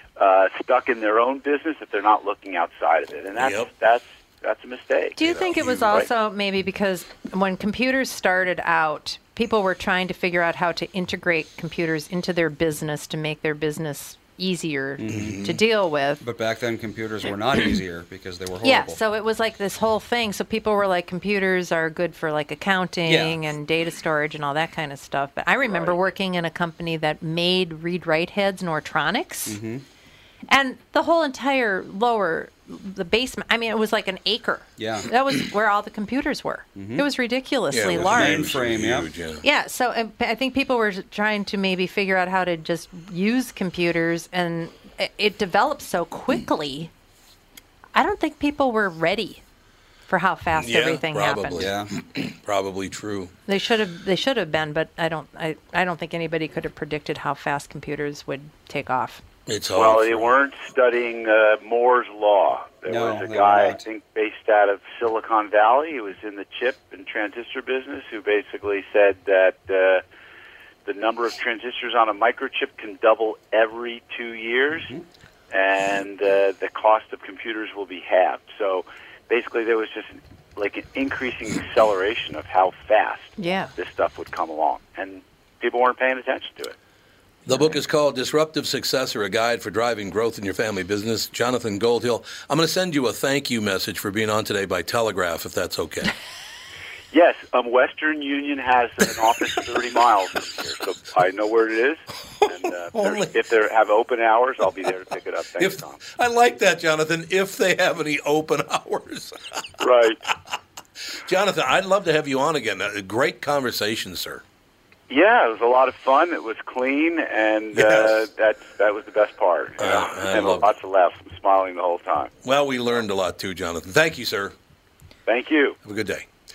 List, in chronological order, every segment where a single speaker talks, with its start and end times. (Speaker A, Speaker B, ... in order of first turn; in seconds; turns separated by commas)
Speaker A: 0.2-5.2, Speaker B: 3.4-3.7, Speaker C: 5.2-16.2, Speaker B: 5.2-6.0, Speaker D: 15.0-15.4, Speaker B: 15.1-15.6, Speaker D: 16.2-19.0, Speaker C: 18.6-29.6, Speaker D: 23.1-23.4, Speaker D: 25.6-25.9, Speaker D: 29.4-29.8, Speaker C: 30.5-38.5, Speaker D: 34.8-35.1, Speaker D: 36.8-37.1, Speaker B: 37.7-39.4, Speaker D: 37.9-39.1, Speaker C: 39.4-46.9, Speaker C: 47.9-49.4, Speaker C: 50.1-51.7, Speaker B: 50.5-53.3, Speaker D: 51.6-51.9, Speaker C: 53.5-59.2, Speaker B: 59.5-60.3, Speaker A: 59.7-70.0, Speaker D: 62.9-63.8, Speaker A: 70.8-74.9, Speaker A: 75.5-86.8, Speaker C: 83.4-83.7, Speaker B: 87.5-96.1, Speaker C: 87.5-87.8, Speaker A: 97.1-106.0, Speaker B: 102.4-103.4, Speaker B: 105.6-109.6, Speaker A: 109.8-110.2, Speaker B: 111.2-114.4, Speaker A: 115.1-122.3, Speaker B: 117.7-118.2, Speaker B: 119.8-120.7, Speaker B: 122.4-124.5, Speaker A: 125.3-125.8, Speaker B: 125.8-126.3